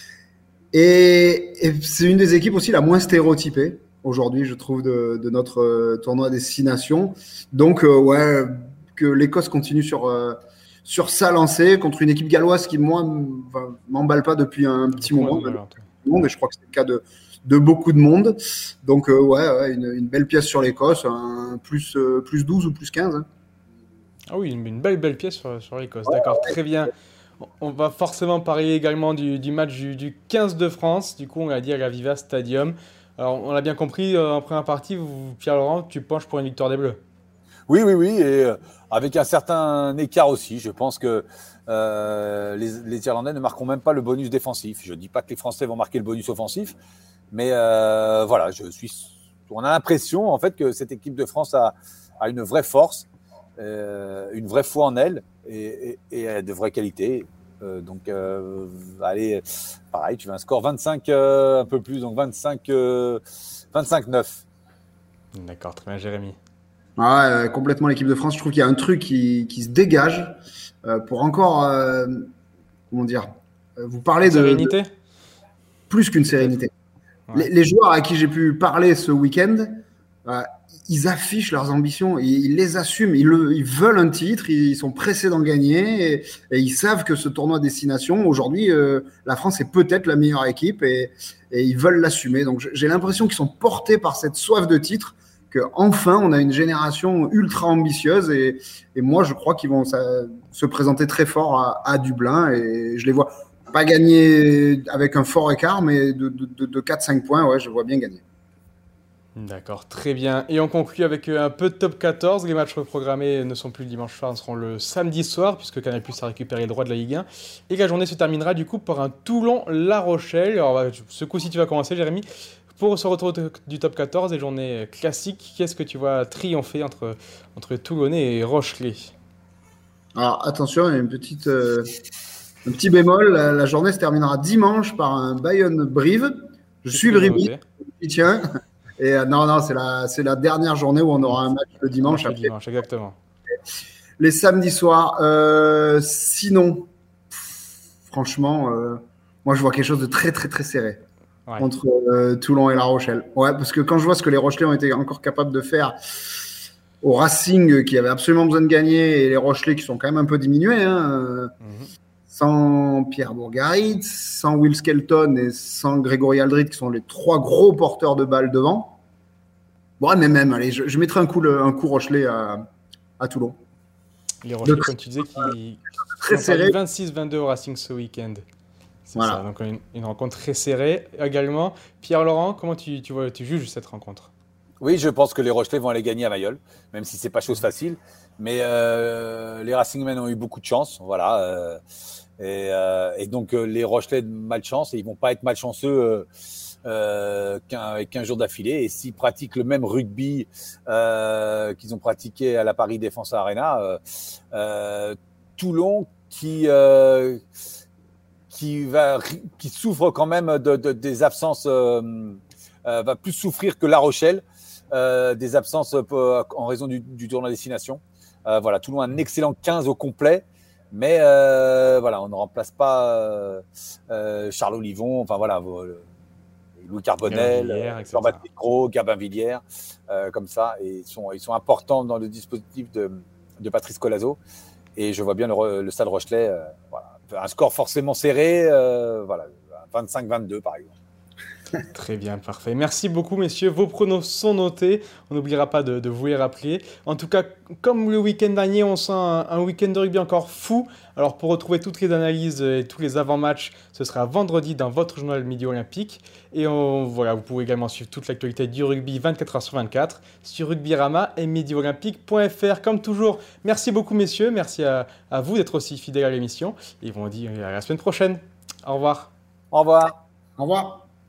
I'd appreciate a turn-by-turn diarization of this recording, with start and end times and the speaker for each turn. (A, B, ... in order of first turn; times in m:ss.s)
0:00.7-0:23.2 A
0:15.0-0:15.9 B
0:24.3-0:26.9 B
0:27.6-0:37.0 B
0:37.7-0:46.8 C
0:47.3-0:53.1 C
0:53.6-1:03.2 C
1:03.7-1:04.4 C
1:05.3-1:06.4 B
1:07.0-1:12.3 A
1:12.9-1:14.8 A
1:14.2-1:14.9 B
1:15.9-1:16.7 A
1:17.3-1:48.2 A
1:49.4-2:09.1 B
2:10.1-2:11.9 A
2:12.6-2:18.4 A
2:16.9-2:17.6 B
2:19.0-2:22.5 A
2:22.0-2:23.2 B
2:24.2-2:26.9 A
2:28.1-2:31.0 A
2:31.6-2:35.9 A
2:37.0-2:41.5 A
2:41.6-2:41.9 B
2:42.3-2:49.0 A
2:50.0-2:52.6 A
2:53.2-2:53.6 A
2:54.4-2:58.4 B
2:54.6-2:54.9 A
2:56.2-2:56.8 A
2:59.0-3:04.3 B
2:59.2-2:59.4 A
3:04.8-3:11.8 C
3:12.4-3:16.2 C
3:16.8-3:24.0 C
3:24.5-3:27.4 C
3:28.5-3:46.0 C
3:46.8-3:54.4 C
3:47.2-3:48.4 B
3:55.0-4:00.9 C
4:01.9-4:29.3 B
4:29.7-4:30.2 C
4:30.6-4:31.0 A